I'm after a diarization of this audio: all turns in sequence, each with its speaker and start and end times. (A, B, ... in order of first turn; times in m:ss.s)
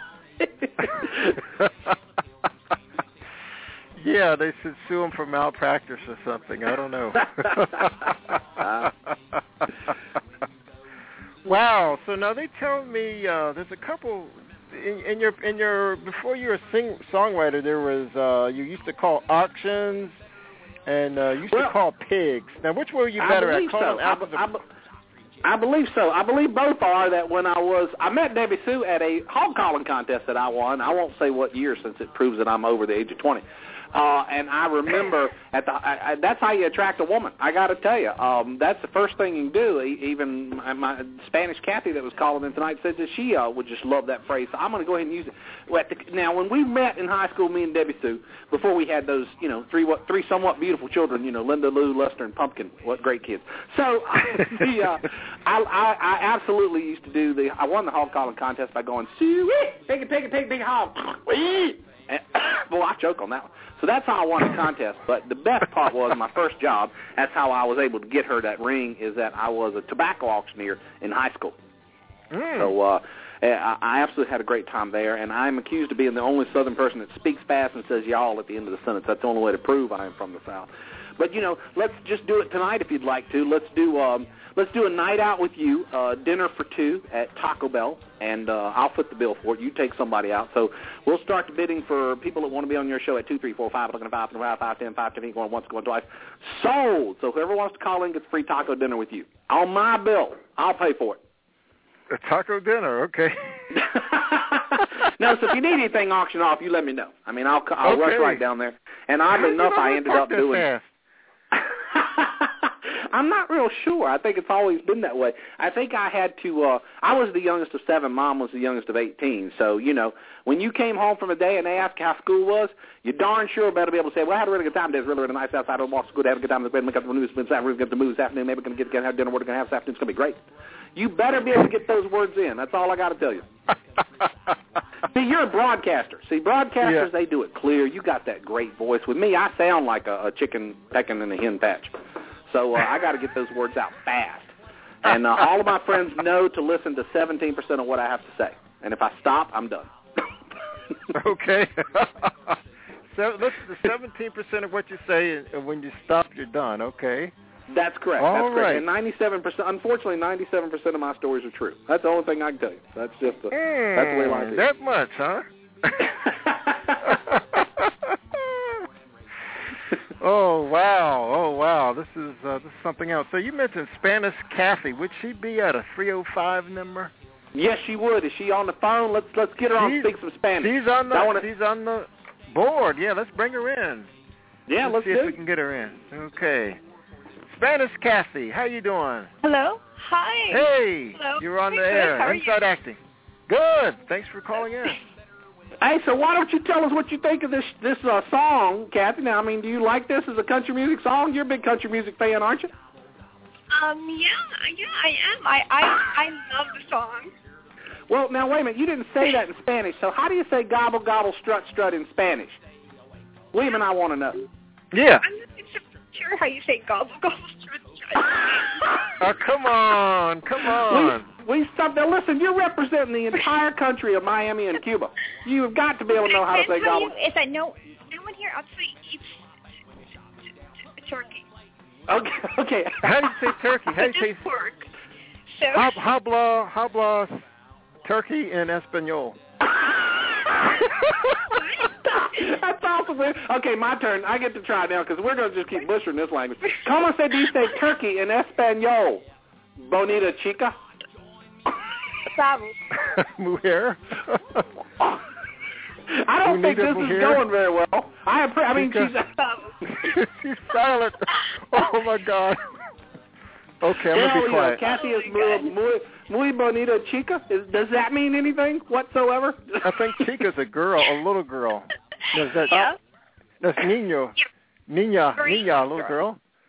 0:00.4-0:01.4 A
0:04.0-0:08.3 B
0:07.5-0:07.9 A
0:08.6-0:08.9 A
0:11.4-0:20.2 B
0:20.8-0:24.4 B
0:21.5-0:21.7 A
0:23.2-0:24.6 A
0:25.4-1:11.6 A
1:12.3-1:12.7 B
1:12.6-1:41.2 A
1:42.1-1:43.6 B
1:43.7-1:50.6 A
1:47.8-1:48.4 B
1:49.3-1:50.9 B
1:51.5-2:10.4 A
2:10.9-2:13.4 A
2:15.0-2:22.0 A
2:16.8-2:17.1 B
2:22.5-2:24.5 A
2:25.0-2:29.9 A
2:31.1-2:32.6 B
2:33.1-2:37.3 B
2:37.7-2:44.6 A
2:38.2-2:38.8 B
2:43.5-2:46.2 B
2:46.3-2:47.0 A
2:47.0-2:48.8 B
2:50.2-2:57.1 B
2:57.5-3:01.4 A
2:59.8-3:04.1 B
3:04.7-3:05.4 A
3:04.8-3:06.8 B
3:07.5-3:09.3 B
3:09.4-3:12.6 C
3:10.5-3:15.0 B
3:15.8-3:22.7 A
3:23.7-3:27.3 C
3:28.1-3:32.6 A
3:33.5-3:34.4 A
3:34.9-3:35.2 B
3:35.2-3:39.0 C
3:39.2-3:41.2 B
3:40.9-3:47.1 A
3:46.1-3:49.3 C
3:51.0-3:51.4 C
3:52.1-3:53.3 A
3:53.0-3:54.4 B
3:53.9-3:54.9 C
3:55.5-3:56.0 C
3:55.7-3:57.4 B
3:58.0-3:59.4 B
3:59.8-4:00.8 A
4:01.5-4:01.8 C
4:02.0-4:09.2 A
4:09.8-4:10.8 A
4:12.2-4:12.9 C
4:12.9-4:14.7 B
4:16.1-4:19.3 A
4:16.4-4:17.4 B
4:18.7-4:19.1 B
4:19.4-4:20.0 C
4:20.0-4:22.6 B
4:23.8-4:24.8 B
4:24.1-4:30.3 A
4:24.8-4:25.7 C
4:29.8-4:32.9 B
4:32.7-4:33.0 C
4:33.6-4:34.4 B
4:34.9-4:36.4 B
4:35.4-4:35.7 C